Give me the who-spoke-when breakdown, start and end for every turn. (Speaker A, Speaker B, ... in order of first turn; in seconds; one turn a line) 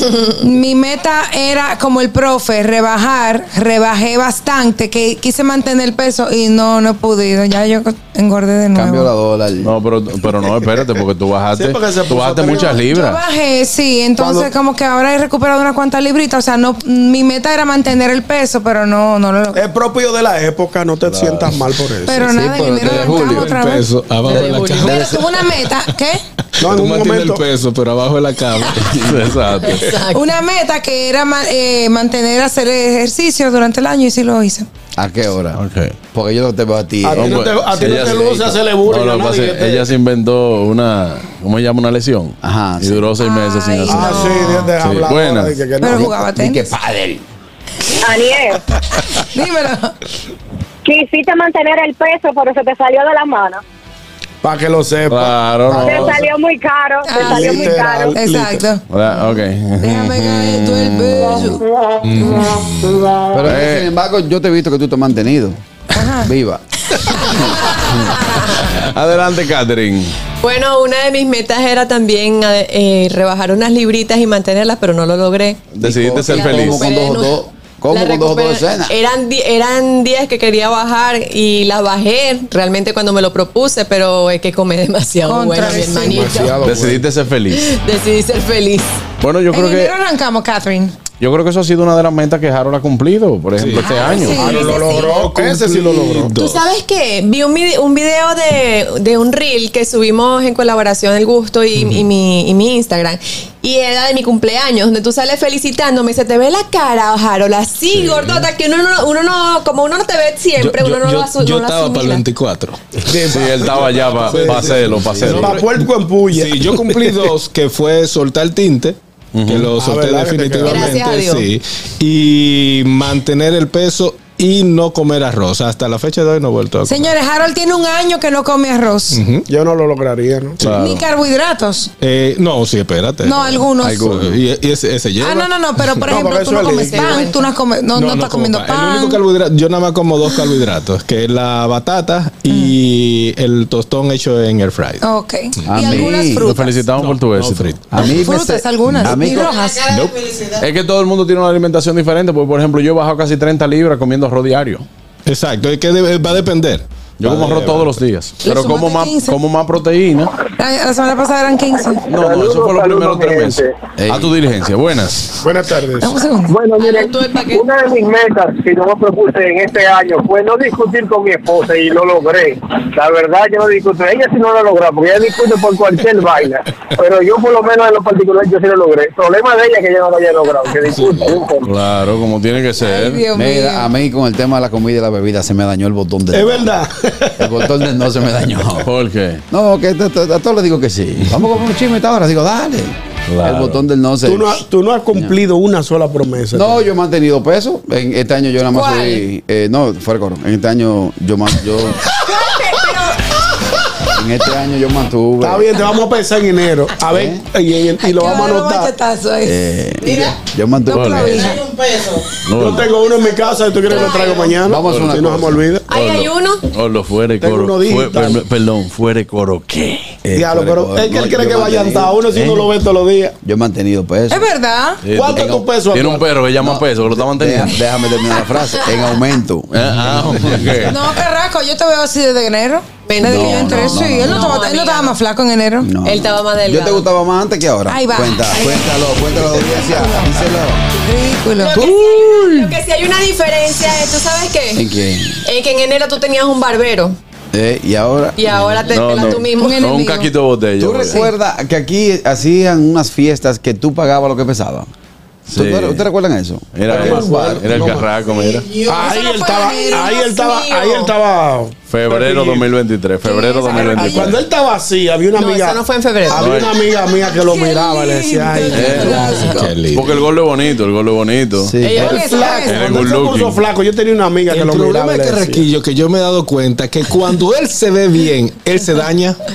Speaker A: 0.4-9.1
Speaker B: 8.7-9.8
Speaker C: 9.6-13.2
Speaker D: 11.5-12.8
Speaker A: 12.6-19.6
Speaker D: 14.2-14.5
Speaker D: 19.5-22.3
Speaker C: 21.1-21.6
Speaker A: 22.1-26.2
Speaker B: 22.1-23.5
Speaker E: 22.8-25.1
Speaker F: 24.3-25.0
Speaker D: 26.6-27.4
Speaker E: 26.6-29.1
Speaker C: 29.0-29.8
Speaker F: 29.6-30.3
Speaker A: 30.1-34.7
Speaker B: 35.0-35.6
Speaker C: 35.5-36.0
Speaker B: 36.1-38.2
Speaker D: 37.0-39.9
Speaker C: 37.1-45.6
Speaker B: 42.4-43.1
Speaker A: 43.2-44.6
Speaker D: 43.9-46.2
Speaker A: 45.8-46.6
Speaker B: 45.9-47.2
Speaker G: 48.0-48.6
Speaker A: 49.1-49.9
Speaker G: 50.8-53.6
Speaker D: 54.4-56.2
Speaker C: 55.1-56.2
Speaker G: 55.8-58.1
Speaker A: 57.0-58.8
Speaker D: 57.2-58.6
Speaker C: 58.9-61.2
Speaker A: 59.8-61.6
Speaker E: 62.0-63.0
Speaker A: 62.2-62.5
Speaker B: 63.3-66.6
Speaker C: 63.4-63.9
Speaker A: 65.9-66.3
Speaker F: 67.6-68.7
Speaker C: 68.7-70.1
Speaker F: 70.4-86.6
Speaker C: 75.7-76.8
Speaker B: 75.8-78.9
Speaker A: 85.2-86.5
Speaker D: 86.0-87.0
Speaker C: 86.6-87.6
Speaker F: 87.5-89.0
Speaker C: 89.2-89.9
Speaker A: 89.5-90.9
Speaker C: 91.2-94.7
Speaker E: 93.6-96.7
Speaker A: 93.8-95.0
Speaker D: 94.3-96.3
Speaker F: 96.3-112.2
Speaker E: 101.8-102.0
Speaker E: 108.0-108.5
Speaker E: 110.6-112.8
Speaker D: 113.0-117.3
Speaker C: 113.3-115.5
Speaker E: 114.3-127.1
Speaker C: 119.3-119.7
Speaker D: 119.8-121.0
Speaker F: 120.6-121.5
Speaker A: 126.9-129.2
Speaker E: 129.1-129.4
Speaker D: 129.5-130.6
Speaker C: 130.6-131.0
Speaker A: 130.8-131.9
Speaker E: 132.0-136.0
Speaker A: 133.2-134.1
Speaker B: 133.9-134.4
Speaker A: 135.2-139.2
Speaker D: 136.1-137.2
Speaker F: 136.7-137.4
Speaker E: 137.9-145.0
Speaker A: 145.0-146.8
Speaker B: 145.7-146.5
Speaker C: 146.4-147.8
Speaker E: 146.9-148.1
Speaker B: 147.9-149.6
Speaker A: 148.0-149.9
Speaker C: 150.6-154.8
Speaker E: 155.2-156.8
Speaker C: 157.2-160.3
Speaker B: 157.2-157.9
Speaker A: 158.4-159.4
Speaker A: 160.6-162.1
Speaker C: 162.1-165.4
Speaker H: 162.1-163.7
Speaker B: 164.0-164.3
Speaker D: 165.4-166.2
Speaker A: 166.0-166.6
Speaker H: 166.5-181.7
Speaker F: 166.8-167.6
Speaker E: 181.0-181.4
Speaker C: 181.6-183.2
Speaker A: 182.8-183.9
Speaker B: 183.3-186.7
Speaker D: 186.3-187.6
Speaker B: 187.4-188.9
Speaker C: 188.8-189.4
Speaker B: 189.5-194.6
Speaker C: 193.3-193.8
Speaker D: 194.2-196.8
Speaker B: 196.5-202.1
Speaker A: 198.8-199.1
Speaker F: 202.1-203.4
Speaker B: 204.1-205.7
Speaker D: 205.4-208.9
Speaker B: 207.1-207.4
Speaker A: 208.0-209.5
Speaker B: 209.4-211.5
Speaker A: 210.9-211.6
Speaker C: 210.9-211.4
Speaker C: 212.4-212.9
Speaker D: 212.6-215.8
Speaker F: 213.9-214.6
Speaker B: 214.6-215.6
Speaker C: 214.8-215.2
Speaker F: 215.9-216.7
Speaker C: 215.9-220.2
Speaker D: 217.4-218.4
Speaker B: 220.2-222.2
Speaker D: 220.3-223.3
Speaker C: 222.3-222.7
Speaker B: 223.4-224.5
Speaker A: 224.3-225.0
Speaker C: 225.0-227.8
Speaker D: 225.1-226.3
Speaker B: 225.3-225.7
Speaker B: 226.6-230.9
Speaker F: 228.5-229.1
Speaker C: 229.7-231.0
Speaker A: 230.9-235.9
Speaker F: 233.1-235.2
Speaker B: 233.2-234.6
Speaker B: 235.8-240.8
Speaker F: 236.0-237.1
Speaker A: 237.9-242.6
Speaker F: 241.6-244.9
Speaker B: 241.8-242.0
Speaker B: 244.7-245.4
Speaker F: 245.4-247.2
Speaker B: 247.5-249.3
Speaker F: 248.4-249.8
Speaker C: 248.9-251.2
Speaker A: 249.6-250.3
Speaker B: 250.8-254.9
Speaker C: 255.5-256.0
Speaker B: 255.5-258.0
Speaker C: 256.7-258.7
Speaker D: 256.9-258.0
Speaker D: 258.8-262.7
Speaker A: 258.9-260.5
Speaker F: 259.8-261.1
Speaker C: 261.9-264.4
Speaker A: 263.2-264.4
Speaker D: 263.8-269.5
Speaker F: 265.3-266.6
Speaker C: 266.3-266.7
Speaker A: 267.4-269.7
Speaker C: 268.7-271.7
Speaker E: 269.4-270.3
Speaker B: 271.6-272.0
Speaker F: 271.8-272.6
Speaker A: 271.9-272.9
Speaker D: 271.9-275.6
Speaker C: 272.6-273.6
Speaker E: 274.5-279.4